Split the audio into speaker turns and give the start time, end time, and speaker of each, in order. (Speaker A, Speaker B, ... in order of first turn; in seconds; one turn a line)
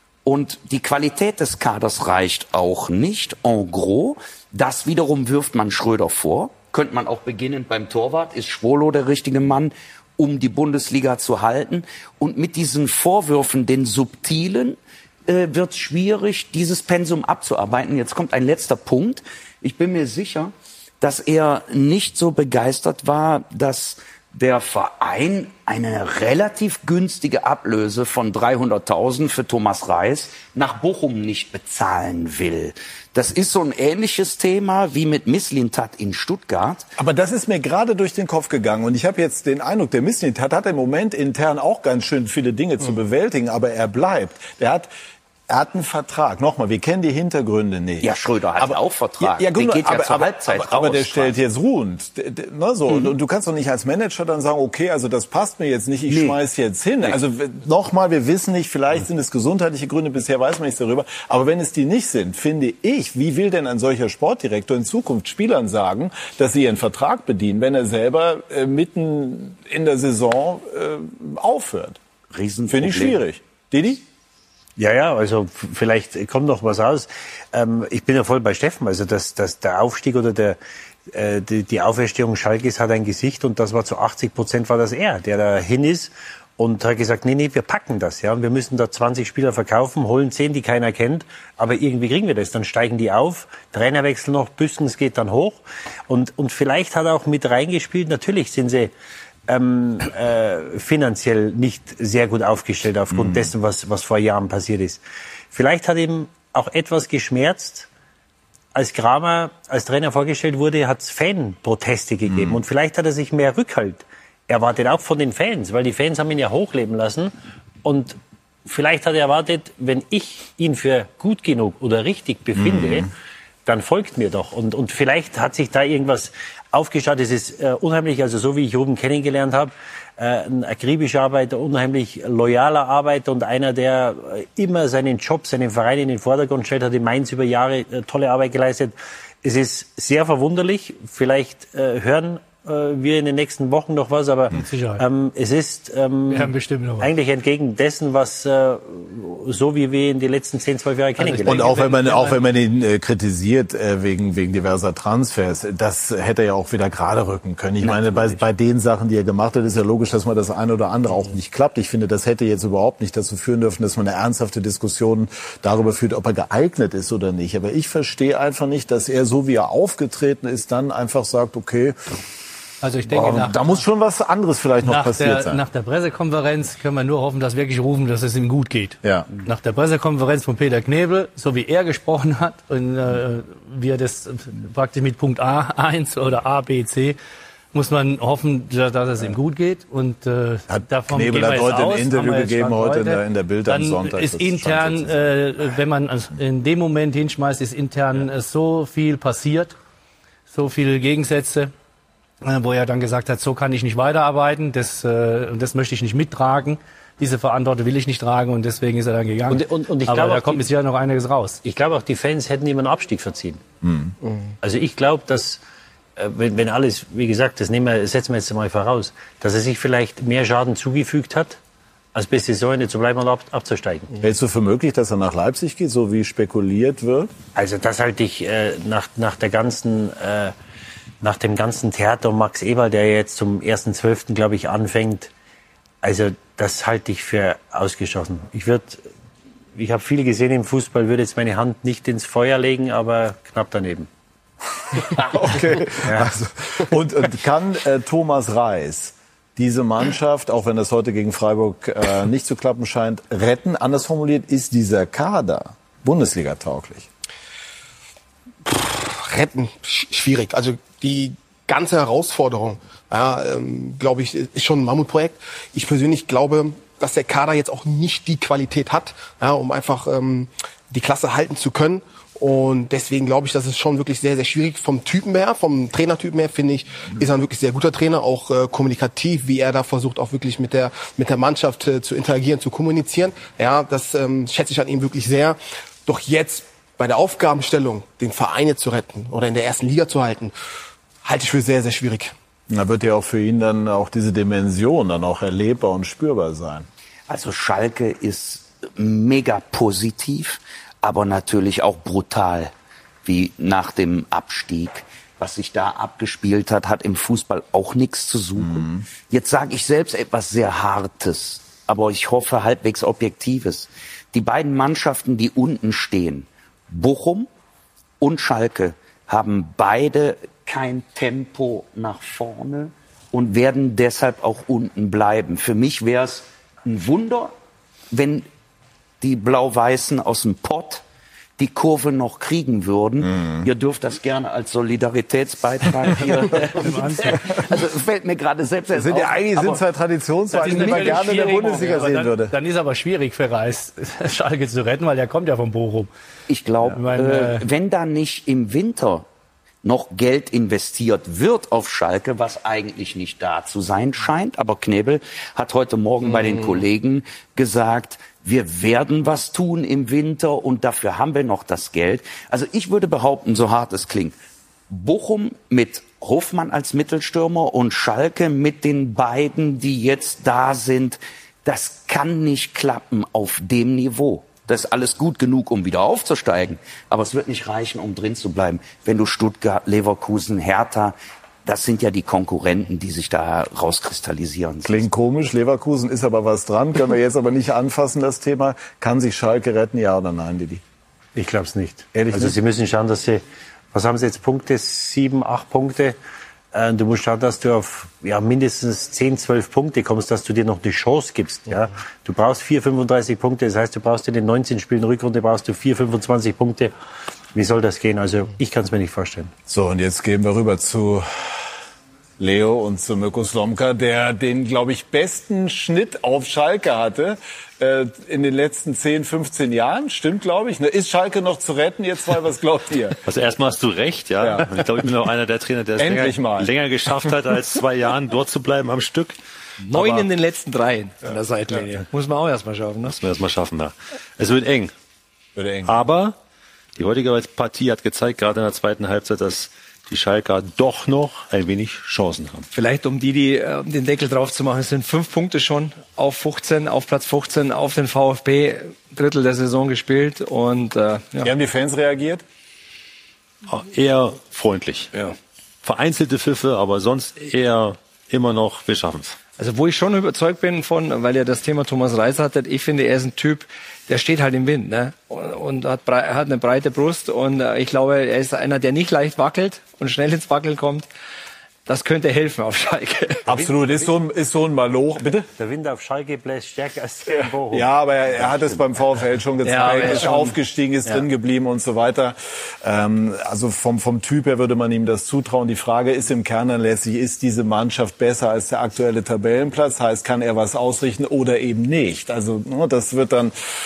Speaker A: 0.2-36.9
Speaker B: 37.0-44.9
Speaker B: 45.5-72.0
Speaker A: 48.0-51.4
Speaker A: 56.1-56.4
Speaker A: 72.3-73.2
Speaker B: 72.7-74.0
Speaker C: 74.8-80.6
Speaker C: 81.1-98.9
Speaker C: 99.5-105.0
Speaker B: 103.1-103.5
Speaker C: 105.5-107.9
Speaker C: 108.7-117.3
Speaker B: 112.3-112.6
Speaker C: 117.8-123.1
Speaker B: 122.6-123.1
Speaker C: 123.7-151.7
Speaker D: 144.5-145.0
Speaker D: 146.3-147.1
Speaker D: 151.2-152.4
Speaker B: 151.4-172.0
Speaker A: 157.8-158.4
Speaker D: 172.8-173.8
Speaker B: 173.1-175.6
Speaker D: 174.9-187.2
Speaker B: 179.0-179.3
Speaker D: 187.7-199.8
Speaker B: 190.7-195.3
Speaker D: 200.5-201.7
Speaker D: 202.4-211.6
Speaker C: 209.5-210.7
Speaker C: 211.6-213.6
Speaker B: 213.8-214.1
Speaker C: 214.6-215.6
Speaker C: 216.2-221.6
Speaker C: 222.1-224.1
Speaker B: 224.2-227.3
Speaker C: 227.6-230.5
Speaker C: 231.2-235.3
Speaker C: 236.0-239.1
Speaker C: 239.8-244.1
Speaker B: 245.3-257.1
Speaker C: 246.0-246.3
Speaker E: 258.7-290.5
Speaker E: 291.2-292.3
Speaker B: 292.7-296.9
Speaker A: 297.3-302.7
Speaker A: 303.2-317.5
Speaker B: 308.6-309.1
Speaker A: 318.2-327.5
Speaker A: 328.1-328.5
Speaker A: 329.2-331.0
Speaker A: 331.6-339.8
Speaker B: 333.2-333.6
Speaker D: 336.1-337.5
Speaker B: 338.9-342.5
Speaker D: 340.5-346.1
Speaker A: 340.6-341.9
Speaker A: 346.5-349.3
Speaker D: 346.8-347.6
Speaker A: 349.8-364.4
Speaker A: 364.9-385.1
Speaker B: 384.8-390.8
Speaker C: 391.4-393.4
Speaker B: 392.1-392.6
Speaker C: 393.9-396.2
Speaker C: 396.7-406.9
Speaker C: 407.6-409.5
Speaker B: 409.7-411.6
Speaker B: 412.4-423.2
Speaker F: 423.2-429.4
Speaker B: 424.4-424.7
Speaker B: 426.0-426.8
Speaker G: 429.9-433.2
Speaker F: 433.1-434.9
Speaker B: 435.6-436.0
Speaker F: 435.8-436.4
Speaker F: 437.0-442.7
Speaker G: 442.7-451.5
Speaker B: 451.4-452.4
Speaker F: 453.7-455.1
Speaker F: 455.8-459.4
Speaker G: 459.5-471.1
Speaker G: 471.9-473.5
Speaker B: 473.5-475.5
Speaker C: 473.6-474.1
Speaker C: 475.6-478.8
Speaker B: 477.4-493.5
Speaker G: 479.6-480.5